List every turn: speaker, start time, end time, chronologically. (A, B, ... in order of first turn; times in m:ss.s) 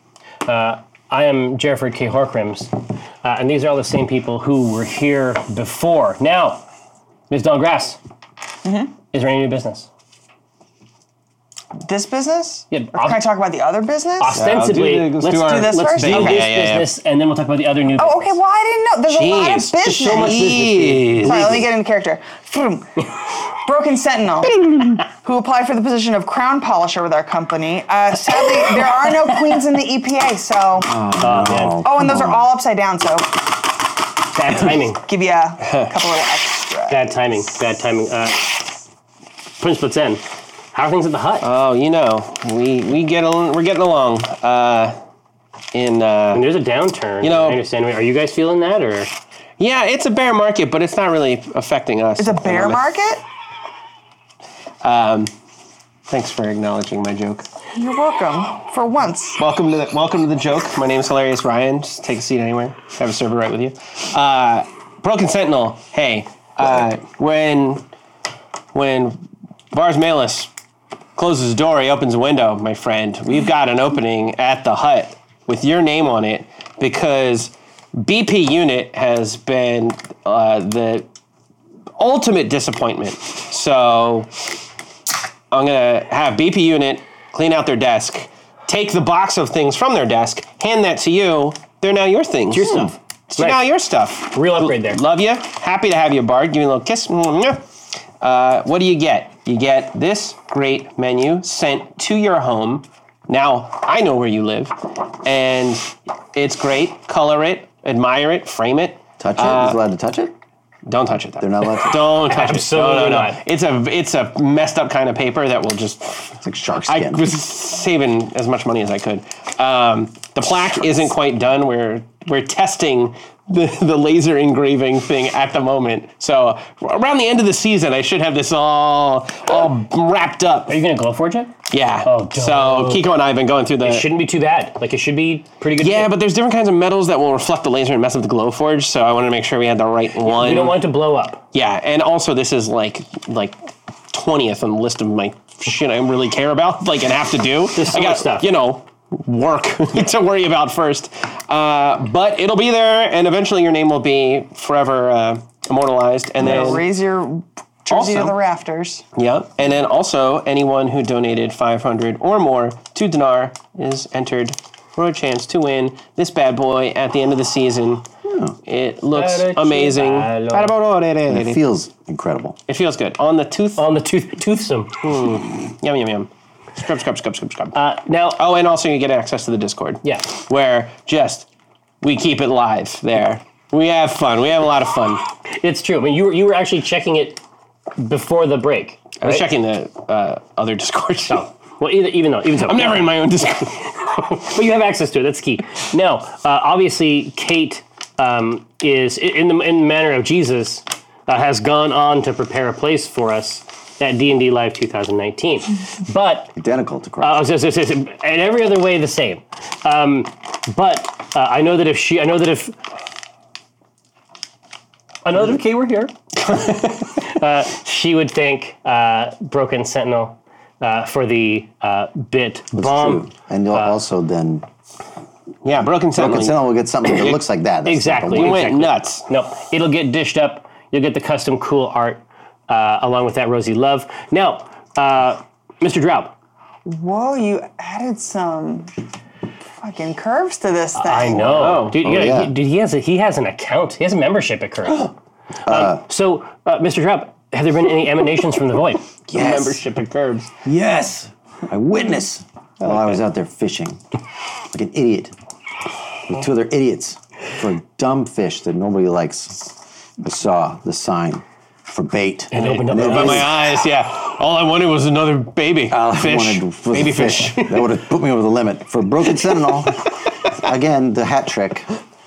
0:00.4-0:06.6 A
0:07.3-0:08.0 A
0:08.6-0:08.9 B
0:09.1-0:09.9 A
0:11.8-0:14.4 B
0:12.7-0:13.2 A
0:14.2-0:18.4 A
0:14.3-0:16.9 C
0:15.3-0:16.5 B
0:18.0-0:31.0 B
0:19.1-0:21.6 C
0:20.0-0:21.6 A
0:30.8-0:32.5 D
0:31.2-0:31.8 A
0:31.8-0:33.5 B
0:34.3-0:35.0 A
0:35.0-0:37.0 B
0:35.6-0:35.9 C
0:36.9-0:38.6 A
0:39.6-0:41.5 A
0:41.4-0:45.0 C
0:45.7-0:46.4 C
0:46.3-0:49.1 A
0:47.2-0:47.6 C
0:49.6-0:52.9 C
0:52.2-0:53.2 B
0:54.8-0:55.3 C
0:56.1-0:57.4 C
0:57.7-0:59.4 B
0:59.4-1:07.8 C
1:08.7-1:09.2 C
1:09.7-1:10.5 C
1:11.2-1:21.1 C
1:22.0-1:24.3 C
1:25.5-1:37.6 C
1:32.5-1:33.7 A
1:34.3-1:35.0 A
1:38.2-1:49.8 C
1:49.2-1:50.3 D
1:50.8-2:10.8 C
1:51.4-1:52.0 D
1:52.2-1:53.4 A
1:56.4-1:57.2 D
2:10.7-2:13.0 A
2:11.7-2:14.1 C
2:13.8-2:16.1 A
2:15.8-2:20.8 C
2:20.2-2:21.4 A
2:21.5-2:36.9 C
2:27.7-2:28.5 A
2:36.4-2:39.0 B
2:37.9-2:38.4 C
2:39.2-2:48.0 C
2:48.2-2:48.6 D
2:48.6-2:51.6 C
2:49.1-2:50.8 A
2:51.3-2:52.6 D
2:52.7-2:53.8 C
2:53.8-2:55.0 A
2:55.0-2:57.8 C
2:57.7-2:58.4 A
2:58.4-3:01.5 C
3:00.0-3:00.3 A
3:02.0-3:05.2 C
3:05.5-3:07.4 A
3:08.0-3:09.4 A
3:09.2-3:11.4 C
3:11.3-3:13.1 A
3:12.6-3:14.0 C
3:14.1-3:26.5 A
3:26.6-3:27.5 D
3:27.2-3:32.8 A
3:35.2-3:44.0 A
3:36.4-3:37.1 C
3:42.7-3:44.6 D
3:45.6-3:46.6 C
3:46.1-3:48.7 D
3:47.8-3:56.3 A
3:48.3-3:49.2 C
3:56.8-3:58.9 B
3:59.8-4:01.6 B
4:01.0-4:05.1 A
4:01.4-4:02.0 C
4:02.0-4:02.5 D
4:05.6-4:06.0 D
4:05.6-4:09.0 A
4:09.3-4:10.5 C
4:09.3-4:09.8 D
4:10.6-4:14.0 D
4:12.8-4:13.2 C
4:14.7-4:15.3 D
4:16.2-4:23.8 D
4:22.5-4:23.5 A
4:22.5-4:27.9 C
4:25.9-4:31.9 D